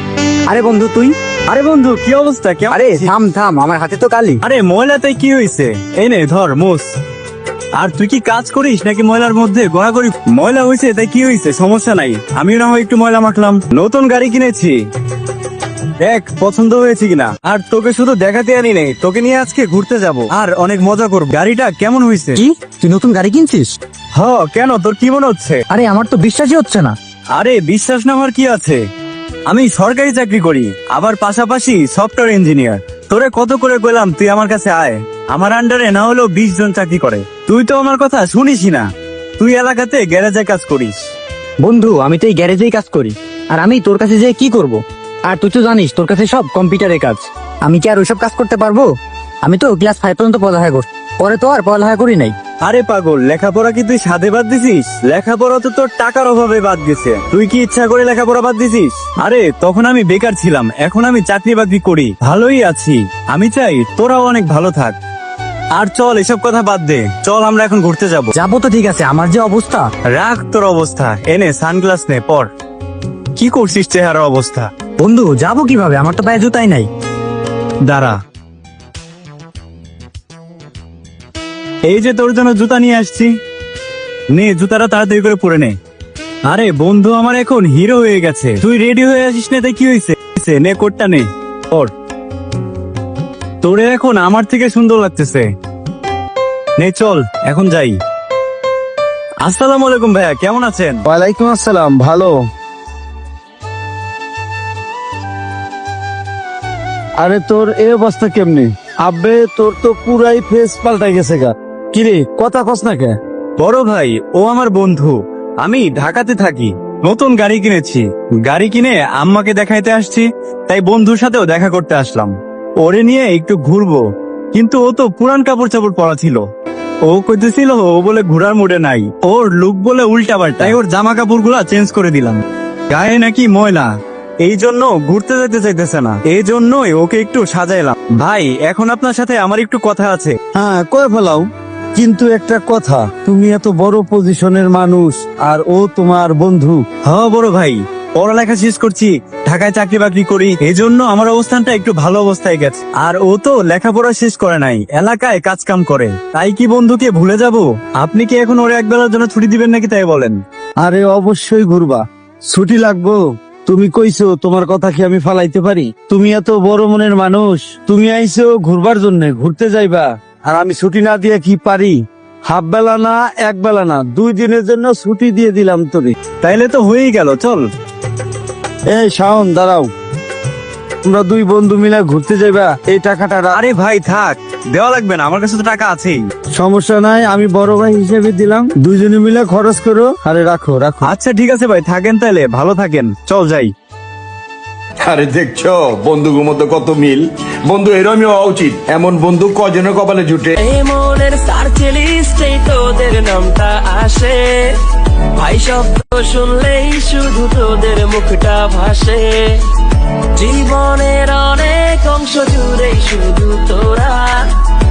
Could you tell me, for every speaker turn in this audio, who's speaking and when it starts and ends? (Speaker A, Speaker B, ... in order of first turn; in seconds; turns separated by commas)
Speaker A: 0.5-1.2, Speaker B: 1.5-3.1, Speaker A: 2.7-4.4, Speaker B: 4.4-7.0, Speaker B: 7.8-14.8, Speaker B: 16.0-22.4, Speaker A: 22.4-23.8, Speaker B: 24.1-25.6, Speaker A: 25.7-27.0, Speaker B: 27.3-28.8, Speaker B: 29.5-41.0, Speaker A: 41.6-48.9, Speaker A: 49.4-52.4, Speaker B: 52.6-65.0, Speaker B: 65.7-68.3, Speaker A: 68.4-69.9, Speaker B: 70.1-72.5, Speaker B: 73.4-74.7, Speaker A: 75.0-76.9, Speaker B: 77.8-78.2, Speaker B: 81.9-83.3, Speaker B: 84.3-85.8, Speaker B: 86.5-91.9, Speaker B: 93.6-95.5, Speaker B: 96.8-98.0, Speaker B: 99.4-101.0, Speaker C: 101.1-102.3, Speaker C: 107.2-113.2, Speaker B: 113.6-126.4, Speaker B: 127.0-140.4, Speaker C: 140.5-146.8, Speaker B: 147.1-160.4, Speaker C: 160.8-176.2, Speaker B: 176.4-177.7, Speaker C: 178.9-179.9, Speaker C: 181.1-183.6, Speaker B: 183.5-186.3, Speaker C: 186.6-191.1, Speaker B: 191.0-193.7, Speaker D: 195.0-200.6, Speaker E: 200.6-204.8, Speaker E: 205.4-209.6, Speaker E: 210.4-214.5